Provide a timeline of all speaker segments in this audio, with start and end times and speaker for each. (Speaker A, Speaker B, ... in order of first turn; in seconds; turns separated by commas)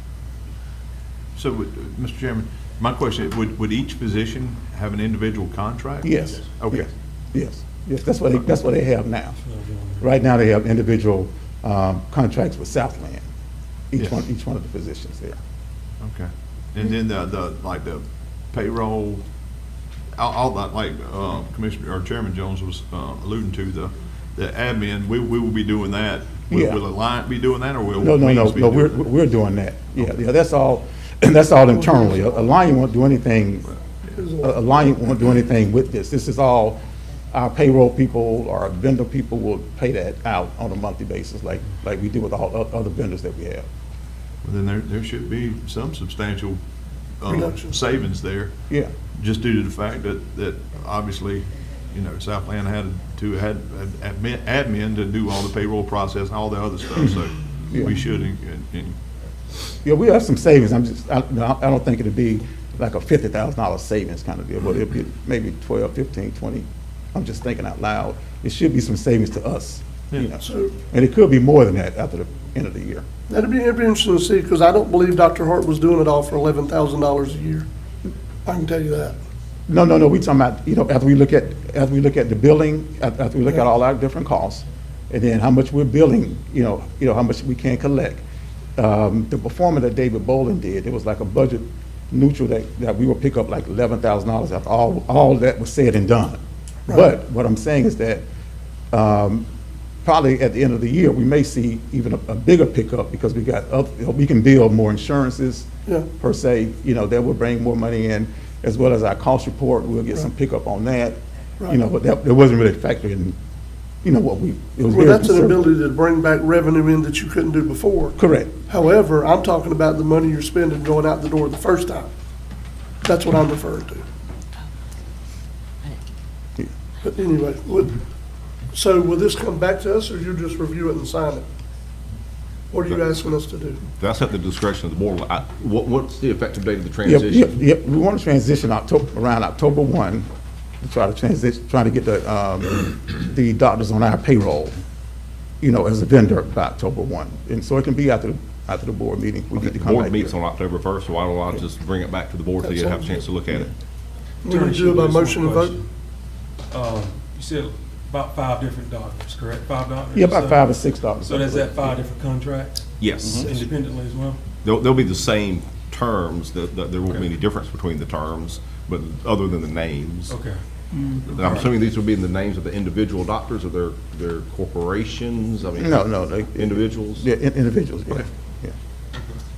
Speaker A: 1.4-6.9, Speaker B: 6.0-9.4, Speaker C: 9.4-10.1, Speaker B: 10.0-13.3, Speaker B: 13.9-15.4, Speaker A: 16.0-19.2, Speaker A: 20.2-29.1, Speaker B: 26.5-26.8, Speaker B: 28.0-33.7, Speaker D: 34.1-34.7, Speaker B: 34.4-36.8, Speaker B: 37.3-43.7, Speaker A: 44.4-46.6, Speaker A: 47.2-48.5, Speaker D: 47.3-47.8, Speaker A: 49.1-59.0, Speaker B: 59.8-73.1, Speaker D: 70.4-70.7, Speaker D: 73.3-77.7, Speaker D: 78.5-79.2, Speaker B: 79.7-88.2, Speaker B: 88.8-98.2, Speaker B: 98.9-99.5, Speaker B: 100.0-113.4, Speaker B: 114.0-115.8, Speaker D: 114.9-122.1, Speaker B: 118.2-118.5, Speaker D: 123.0-124.0, Speaker D: 127.0-128.0, Speaker D: 128.7-131.4, Speaker D: 132.7-133.8, Speaker E: 134.0-137.5, Speaker B: 137.0-140.3, Speaker B: 140.8-144.8, Speaker B: 145.6-150.3, Speaker E: 149.6-153.7, Speaker D: 152.6-153.3, Speaker D: 154.4-155.8, Speaker C: 154.5-155.9, Speaker C: 156.7-164.4, Speaker B: 160.1-162.0, Speaker E: 163.0-163.5, Speaker E: 164.6-170.3, Speaker C: 170.3-170.6, Speaker E: 171.3-177.3, Speaker B: 175.8-178.8, Speaker C: 179.1-179.4